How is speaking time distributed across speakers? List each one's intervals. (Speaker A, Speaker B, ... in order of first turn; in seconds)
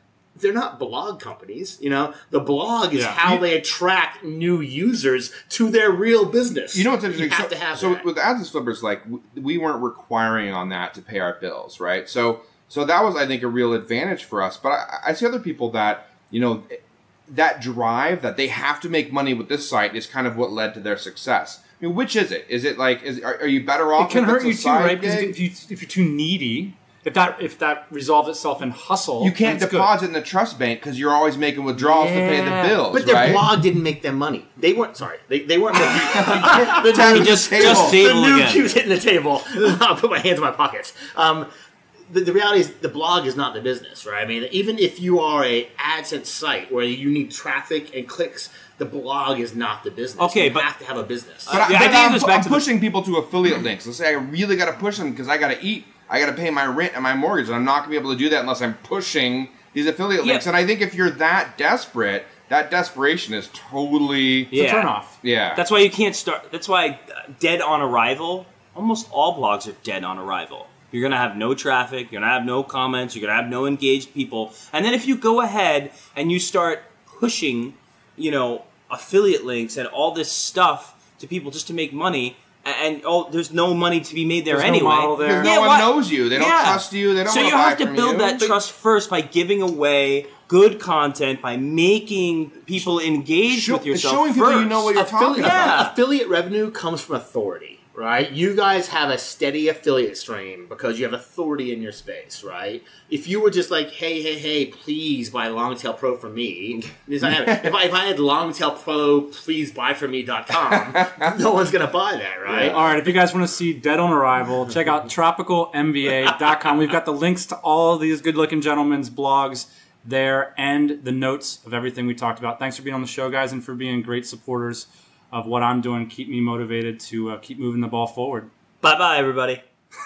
Speaker A: 0.4-8.1, 32.9-41.5, 42.1-51.6, 94.9-112.8
Speaker B: 2.9-3.4, 24.0-29.9, 31.8-32.8, 64.5-65.2, 84.5-85.5, 112.7-128.5
Speaker C: 6.7-25.4, 29.2-33.5, 36.1-38.0, 51.5-64.5, 65.2-65.6, 85.2-88.4, 93.5-95.9, 110.7-111.3, 112.5-112.9
Speaker D: 36.9-38.8, 50.2-50.7, 51.5-52.7, 60.2-60.5, 64.5-64.9, 65.5-96.0, 128.8-129.6